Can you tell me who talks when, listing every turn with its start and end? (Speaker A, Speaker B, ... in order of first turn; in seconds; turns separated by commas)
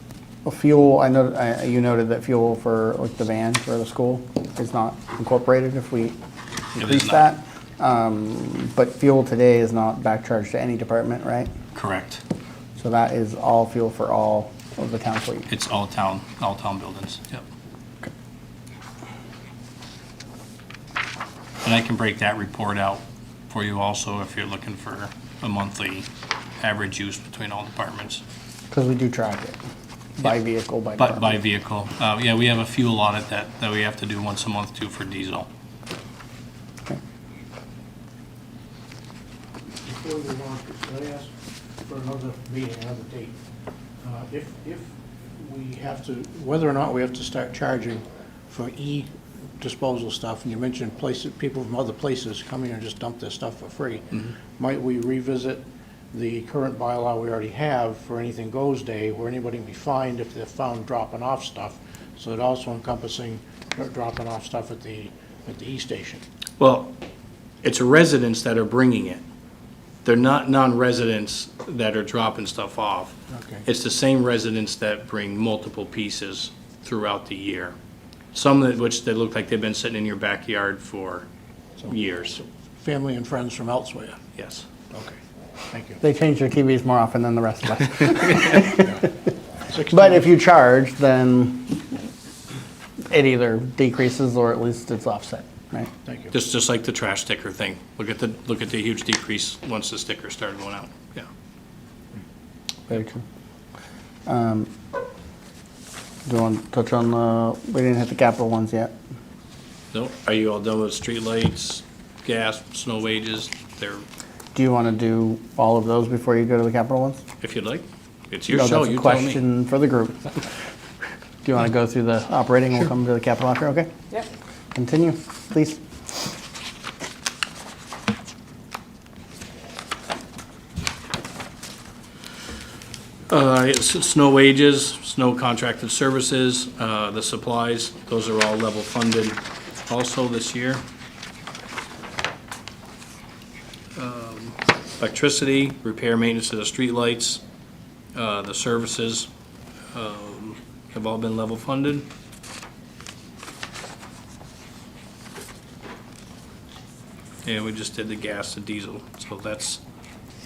Speaker A: 0.5-6.2, Speaker A: 6.7-11.5, Speaker B: 6.8-7.2, Speaker B: 11.7-12.2, Speaker A: 12.8-15.5, Speaker B: 15.5-17.4, Speaker B: 21.6-26.1, Speaker B: 26.6-28.2, Speaker A: 28.7-29.6, Speaker A: 30.2-31.4, Speaker B: 31.0-35.5, Speaker C: 39.9-41.3, Speaker C: 41.9-43.4, Speaker C: 44.0-49.1, Speaker C: 49.6-66.2, Speaker B: 66.6-66.9, Speaker B: 67.6-69.2, Speaker B: 70.0-73.1, Speaker C: 73.3-73.7, Speaker B: 73.7-77.7, Speaker B: 78.3-81.3, Speaker B: 81.9-82.4, Speaker C: 82.8-84.2, Speaker B: 84.3-84.7, Speaker C: 84.9-85.2, Speaker C: 85.7-86.0, Speaker A: 86.0-89.1, Speaker C: 88.7-89.1, Speaker C: 89.7-90.2, Speaker A: 89.9-91.9, Speaker A: 93.1-95.9, Speaker C: 96.0-96.3, Speaker B: 96.3-101.3, Speaker A: 102.9-103.2, Speaker A: 104.3-104.7, Speaker A: 106.3-109.0, Speaker B: 109.9-114.0, Speaker A: 114.5-117.2, Speaker B: 117.4-119.4, Speaker A: 118.5-120.5, Speaker A: 121.4-123.9, Speaker A: 124.7-125.8, Speaker B: 133.3-140.8, Speaker B: 144.0-147.4, Speaker B: 148.2-149.3, Speaker B: 149.9-152.1, Speaker B: 157.4-159.8